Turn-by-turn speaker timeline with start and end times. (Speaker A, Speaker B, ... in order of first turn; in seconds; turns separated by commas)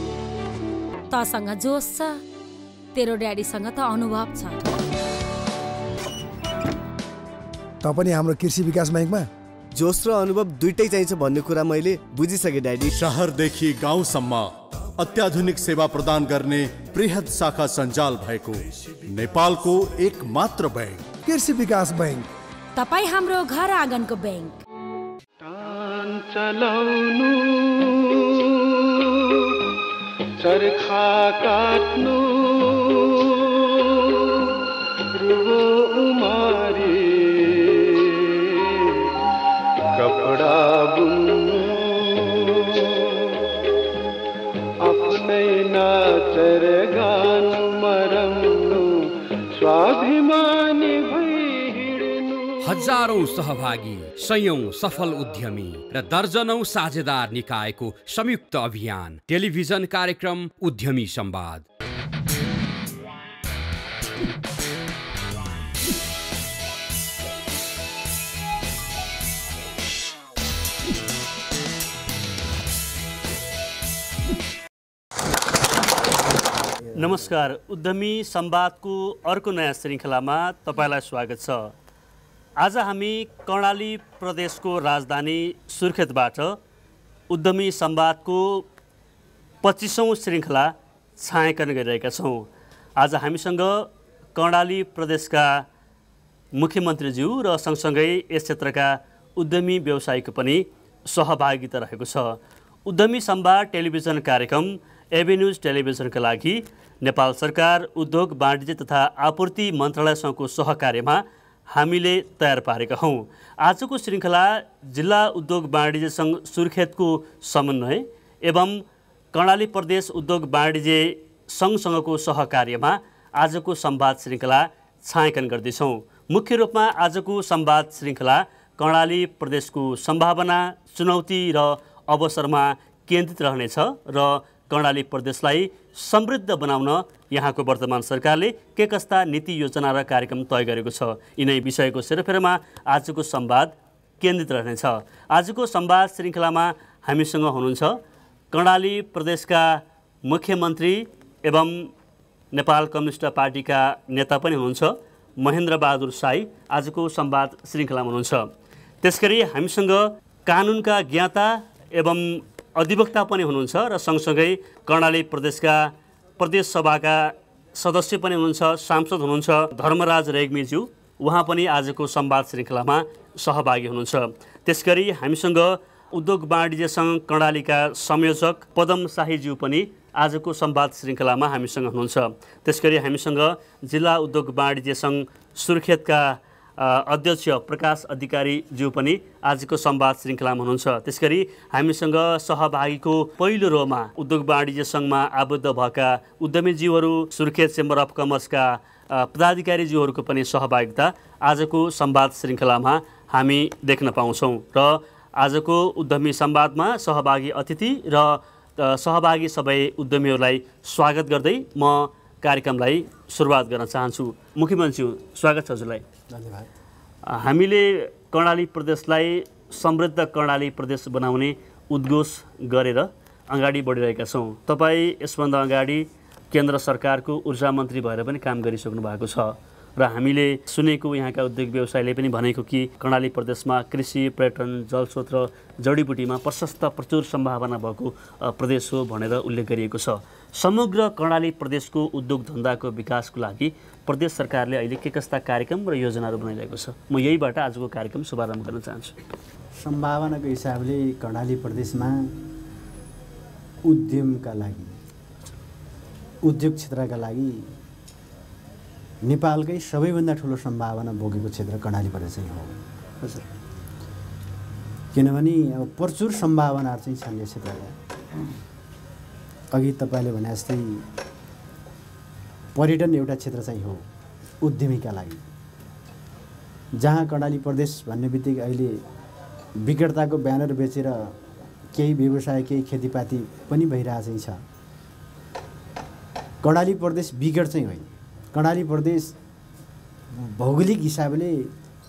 Speaker A: 1.1-2.2, Speaker A: 2.9-4.5, Speaker B: 7.8-9.3, Speaker C: 9.8-12.9, Speaker D: 13.0-21.1, Speaker B: 21.2-22.3, Speaker A: 22.8-24.6, Speaker E: 25.4-29.4, Speaker E: 30.4-34.3, Speaker E: 35.1-39.1, Speaker E: 39.9-43.3, Speaker E: 44.8-53.3, Speaker F: 52.6-61.6, Speaker G: 76.9-81.7, Speaker G: 82.6-86.6, Speaker G: 87.3-88.7, Speaker G: 89.6-95.6, Speaker G: 96.5-118.8, Speaker G: 119.3-148.0, Speaker G: 148.5-151.9, Speaker G: 152.5-158.5, Speaker G: 159.0-216.0, Speaker H: 216.3-216.7, Speaker G: 217.2-249.1, Speaker H: 249.8-252.4, Speaker H: 253.8-255.0, Speaker H: 256.4-257.7, Speaker H: 259.2-262.8, Speaker H: 265.1-267.9, Speaker H: 269.7-271.1, Speaker H: 272.8-274.1, Speaker H: 274.6-275.4, Speaker H: 277.0-279.0, Speaker H: 279.8-281.4, Speaker H: 281.9-284.6, Speaker H: 286.6-289.3, Speaker H: 290.3-291.7